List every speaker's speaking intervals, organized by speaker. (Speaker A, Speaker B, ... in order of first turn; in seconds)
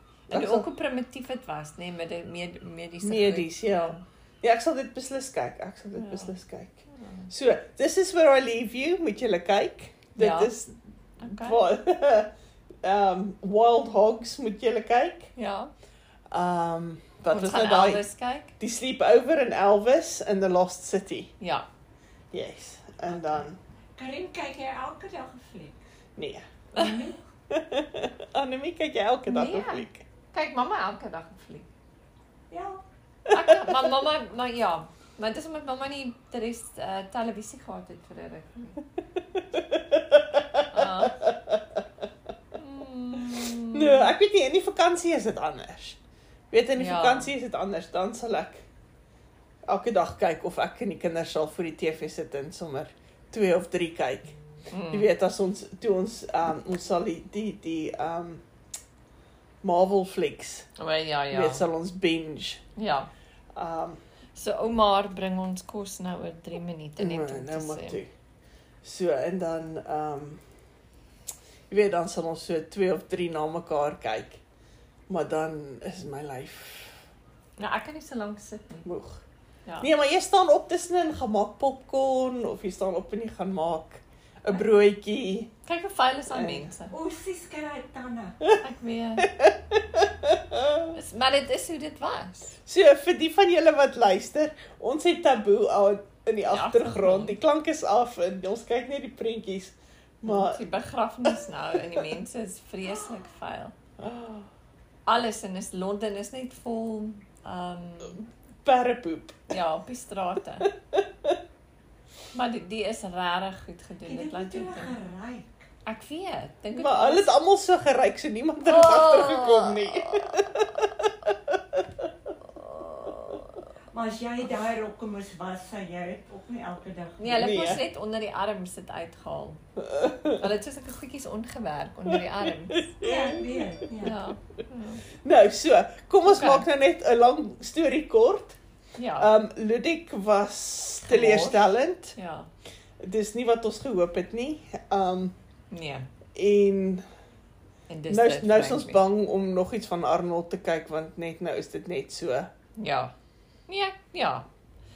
Speaker A: 0.3-0.7, 3.0-6.8, 7.3-12.3, 12.8-15.3, 16.3-18.1, 18.6-21.3, 22.3-23.6, 26.2-26.4, 27.5-30.1, 33.3-33.9, 39.3-41.5, 43.7-46.0, 46.5-48.6, 49.7-54.4, 54.9-58.4, 59.6-60.7, 61.3-62.6, 63.5-64.0, 67.0-68.1, 68.8-70.4, 71.7-74.4, 75.1-77.0, 78.9-79.2, 79.8-85.5, 86.3-86.7, 89.2-90.9, 92.7-100.7, 104.0-104.5, 108.7-109.5, 110.9-111.4, 116.7-122.1, 127.3-127.8, 130.0-130.2, 132.7-134.1, 135.2-138.6, 139.2-142.2, 143.0-145.4, 146.3-147.0, 148.1-152.5
Speaker B: 0.3-4.0, 6.0-6.3, 6.9-7.3, 10.2-10.6, 11.2-11.6, 15.4-15.7, 17.3-18.5, 21.4-21.7, 26.8-27.0, 29.3-31.7, 33.3-38.8, 40.7-41.2, 42.6-44.1, 46.8-47.3, 54.7-55.1, 60.8-61.6, 62.8-63.1, 64.3-68.0, 77.6-78.9, 85.7-87.0, 88.5-89.4, 90.9-92.6, 96.5-97.4, 100.2-103.8, 105.1-108.3, 109.5-110.7, 112.3-115.0, 115.9-117.3, 118.6-120.5, 122.5-123.6, 127.2-129.6, 130.2-132.9, 134.0-135.0, 136.2-136.7, 139.0-139.3, 141.1-141.6, 142.2-142.5, 145.7-146.1, 147.9-149.0, 152.8-153.2, 153.7-154.5
Speaker C: 24.0-25.8, 26.7-27.2, 32.5-32.8, 86.9-88.4, 114.0-115.6, 123.9-127.3, 133.0-134.2